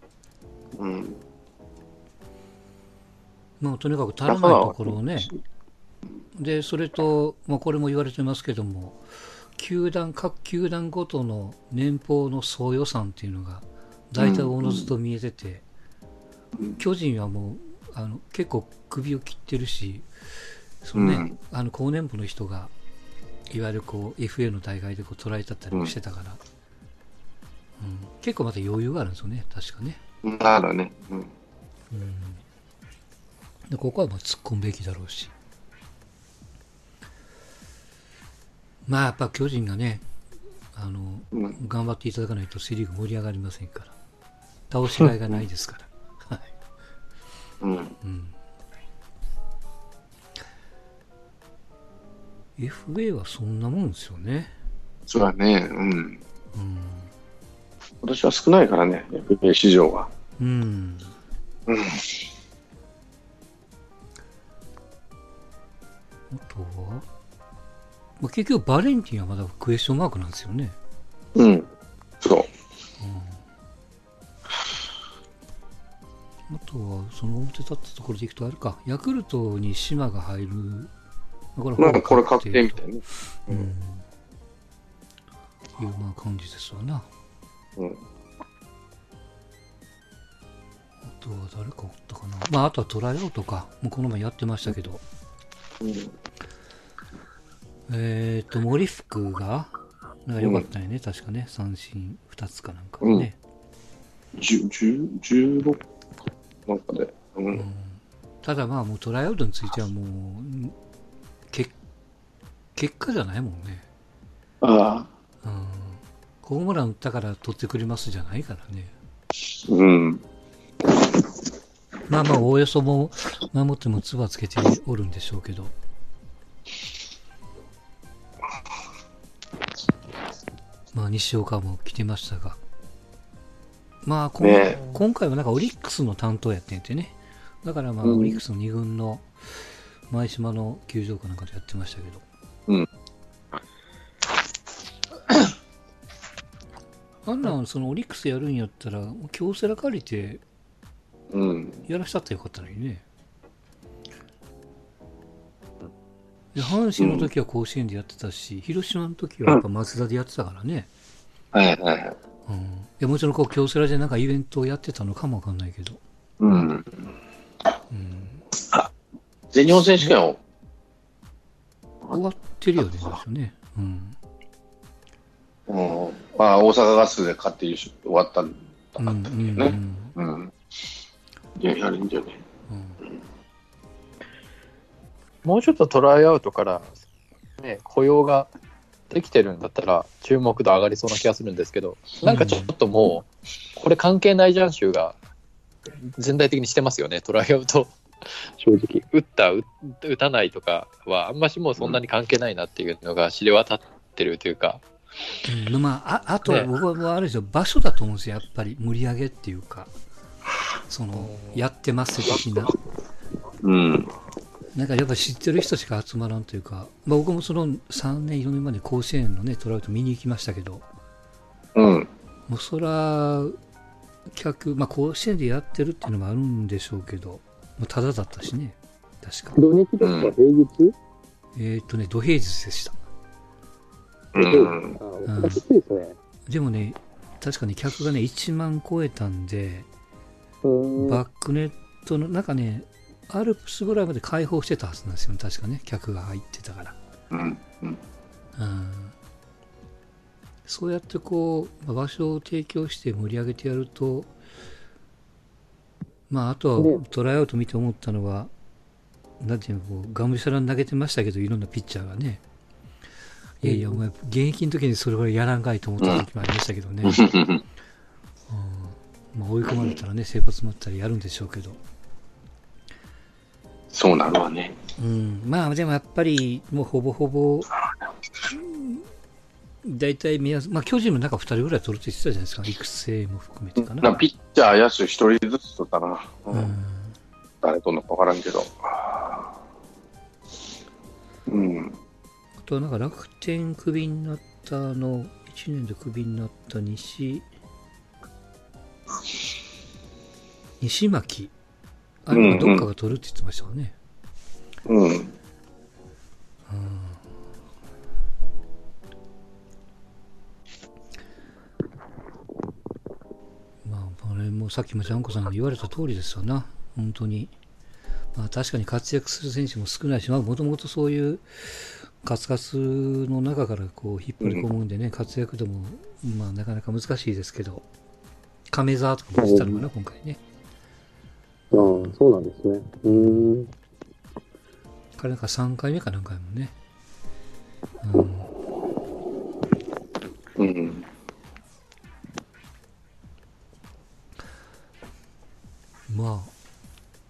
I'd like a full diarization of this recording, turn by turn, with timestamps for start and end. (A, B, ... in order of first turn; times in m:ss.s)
0:00.8-0:01.2 A
0:03.6-0:05.3 B
0:04.3-0:05.4 A
0:06.4-0:09.0 B
0:09.6-0:15.6 B
0:14.2-0:14.9 A
0:16.8-0:20.1 B
0:20.8-0:22.7 B
0:21.0-0:21.3 A
0:23.5-0:26.4 B
0:27.8-0:30.0 B
0:30.2-0:31.3 A
0:31.9-0:32.4 B
0:33.7-0:35.3 B
0:38.9-0:40.0 B
0:40.7-0:43.9 B
0:44.7-0:46.5 B
0:47.6-0:48.0 A
0:48.0-0:48.4 B
0:52.6-0:54.5 B
0:55.1-0:56.2 A
0:56.5-0:57.1 B
0:58.0-1:00.1 A
1:00.4-1:01.1 B
1:01.7-1:02.2 A
1:06.3-1:07.1 B
1:08.2-1:10.8 B
1:11.4-1:11.7 A
1:12.2-1:12.5 A
1:13.0-1:13.4 B
1:16.5-1:20.9 B
1:21.6-1:22.8 B
1:21.8-1:23.7 A
1:23.5-1:24.0 B
1:25.8-1:27.1 B
1:31.0-1:35.0 B
1:35.8-1:36.1 A
1:37.9-1:39.7 B
1:40.2-1:43.4 B
1:40.4-1:40.7 A
1:43.0-1:43.3 A
1:44.4-1:45.8 A
1:46.7-1:47.6 A
1:47.5-1:50.8 B
1:52.8-1:53.9 B
1:54.6-1:55.1 A
1:55.4-1:58.9 B
1:59.6-2:00.2 A
2:02.1-2:05.7 B
2:10.9-2:12.6 B
2:14.0-2:22.2 B
2:14.4-2:14.9 A
2:18.0-2:18.4 A
2:27.3-2:30.4 B
2:31.3-2:31.8 A
2:31.9-2:33.0 B
2:36.5-2:40.9 B
2:37.0-2:37.3 A
2:41.5-2:42.2 A
2:42.5-2:46.0 B
2:46.4-2:47.1 A
2:47.9-2:48.4 B
2:49.5-2:50.4 A
2:52.1-2:54.2 B
2:55.7-3:00.6 A
2:59.0-3:00.2 B
3:01.6-3:02.4 A
3:02.7-3:03.0 B
3:05.4-3:06.9 C
3:07.6-3:08.5 C
3:09.1-3:15.2 C
3:12.2-3:12.7 B
3:16.1-3:24.8 C
3:25.5-3:29.9 B
3:26.4-3:26.7 C
3:30.9-3:32.8 B
3:31.2-3:31.6 C
3:33.6-3:34.1 A
3:34.7-3:40.8 B
3:41.8-3:42.1 A
3:42.5-3:43.6 B
3:44.3-3:49.6 B
3:49.5-3:51.0 C
3:50.0-3:50.4 A
3:51.6-3:53.0 B
3:54.3-3:55.0 A
3:54.4-3:56.2 C
3:55.2-3:55.6 B
3:56.5-3:59.9 B
4:00.6-4:01.2 C
4:01.0-4:07.0 B
4:07.3-4:08.0 A
4:08.6-4:09.2 B
4:10.7-4:14.3 B
4:16.3-4:18.5 B
4:16.8-4:17.0 C
4:19.4-4:22.4 B
4:23.6-4:27.4 B
4:23.6-4:24.0 C
4:27.0-4:27.6 A
4:28.5-4:31.8 B
4:29.6-4:30.0 A
4:33.9-4:34.8 A
4:35.0-4:37.8 B
4:38.5-4:39.1 B
4:39.8-4:44.2 B
4:43.8-4:46.7 A
4:46.5-4:47.2 B
4:47.6-4:49.6 A
4:51.5-4:52.0 A
4:52.6-4:57.5 B
5:00.8-5:01.5 B
5:02.3-5:04.0 B
5:02.3-5:02.9 A
5:04.8-5:05.3 A
5:06.7-5:07.4 B
5:13.8-5:17.5 B
5:18.3-5:27.8 B
5:28.7-5:30.4 B
5:29.4-5:29.8 C
5:31.7-5:33.7 C
5:31.8-5:32.2 B
5:33.1-5:33.6 B
5:35.2-5:36.7 B
5:38.0-5:38.5 B
5:40.6-5:41.1 A
5:46.1-5:46.5 B